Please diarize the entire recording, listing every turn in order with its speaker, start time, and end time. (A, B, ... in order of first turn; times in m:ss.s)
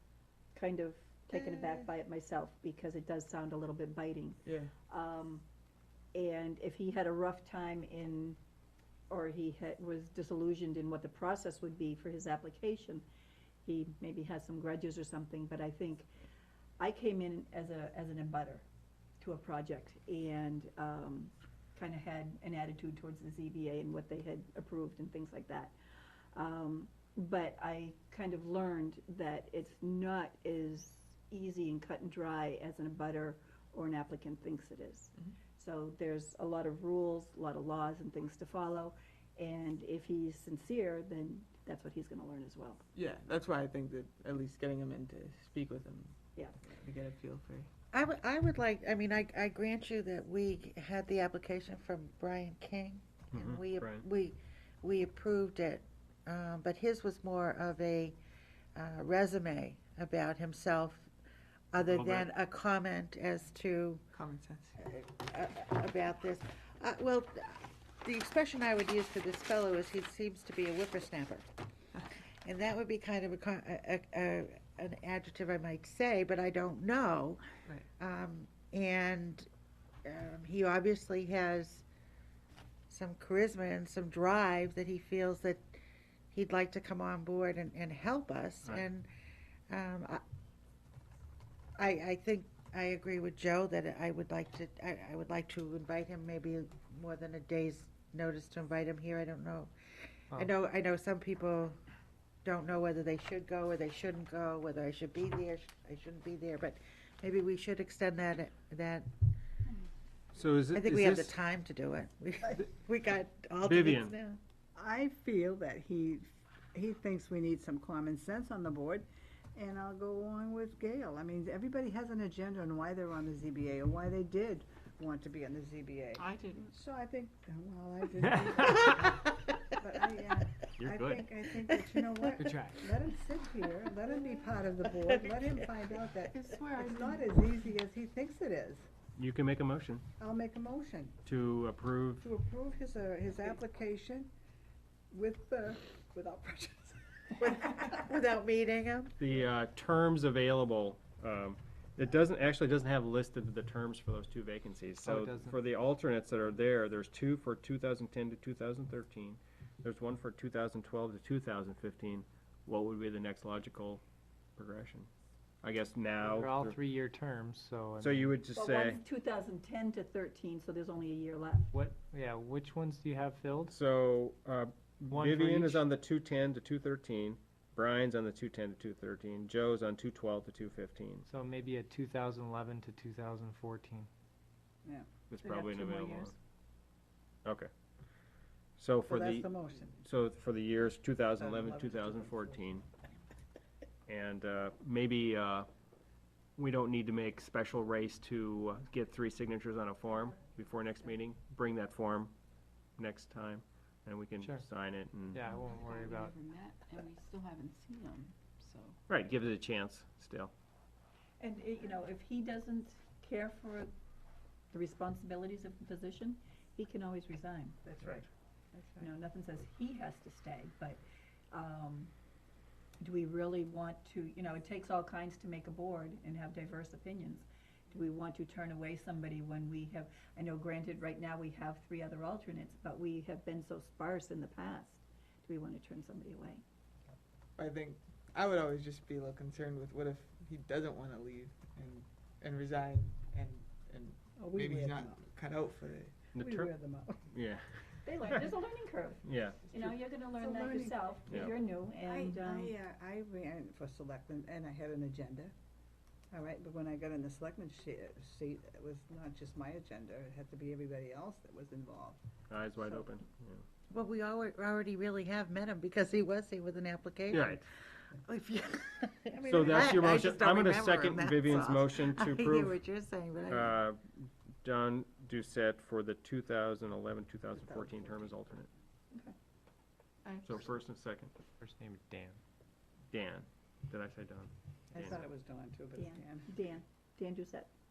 0:00.5-0:05.4 A
0:01.3-0:01.9 B
0:04.4-0:04.7 B
0:06.1-0:08.4 A
0:09.1-0:13.0 A
0:13.6-0:16.1 A
0:16.8-0:18.6 A
0:19.2-0:25.7 A
0:26.3-0:42.8 A
0:42.9-0:47.7 B
0:47.9-0:58.2 C
0:53.3-0:54.0 D
0:58.8-1:01.1 C
1:01.7-1:04.0 C
1:01.8-1:02.3 D
1:04.1-1:04.8 B
1:04.8-1:11.4 C
1:12.4-1:17.4 C
1:18.0-1:19.5 C
1:20.0-1:21.8 C
1:22.9-1:25.8 C
1:26.3-1:29.1 C
1:29.7-1:30.2 C
1:31.8-1:39.7 C
1:40.3-1:41.8 C
1:42.4-1:49.1 C
1:50.3-1:51.3 D
1:50.7-1:54.4 C
1:53.6-1:54.1 D
1:54.7-2:18.9 E
2:06.2-2:06.7 F
2:08.3-2:09.0 G
2:10.8-2:11.3 D
2:12.4-2:12.8 G
2:16.3-2:17.3 F
2:19.2-2:20.0 D
2:20.2-2:21.2 E
2:21.2-2:22.2 D
2:22.2-2:24.3 E
2:25.1-2:27.4 E
2:27.4-2:29.1 C
2:29.2-2:44.0 D
2:35.0-2:35.6 G
2:44.6-2:45.1 D
2:45.6-2:46.8 D
2:46.2-2:48.4 G
2:48.0-2:49.0 D
2:48.5-2:51.7 A
2:51.7-2:53.7 G
2:53.7-3:01.2 D
2:55.1-2:55.8 G
3:01.2-3:04.1 G
3:05.3-3:06.3 D
3:05.4-3:06.3 A
3:08.8-3:12.8 D
3:09.0-3:10.0 E
3:11.4-3:12.8 E
3:14.1-3:15.7 D
3:16.6-3:22.3 D
3:23.0-3:25.4 D
3:25.3-3:26.3 G
3:25.4-3:28.9 F
3:29.1-3:30.5 D
3:31.4-3:33.9 A
3:34.7-3:38.2 A
3:38.7-3:39.0 E
3:39.0-3:42.1 A
3:43.0-3:56.6 A
3:57.6-4:06.2 B
4:04.4-4:05.2 E
4:06.3-4:06.7 D
4:06.4-4:07.2 E
4:07.3-4:08.4 D
4:08.0-4:12.7 A
4:09.2-4:09.6 D
4:09.8-4:11.1 E
4:11.3-4:11.5 D
4:11.9-4:15.5 E
4:16.3-4:22.2 E
4:22.5-4:23.6 D
4:23.9-4:27.6 C
4:27.3-4:27.6 D
4:28.2-4:33.8 C
4:29.4-4:32.8 D
4:33.5-4:38.7 D
4:40.2-4:40.5 F
4:40.4-4:41.3 D
4:41.6-4:42.4 G
4:43.1-4:45.2 D
4:44.9-4:46.5 E
4:46.0-4:47.7 A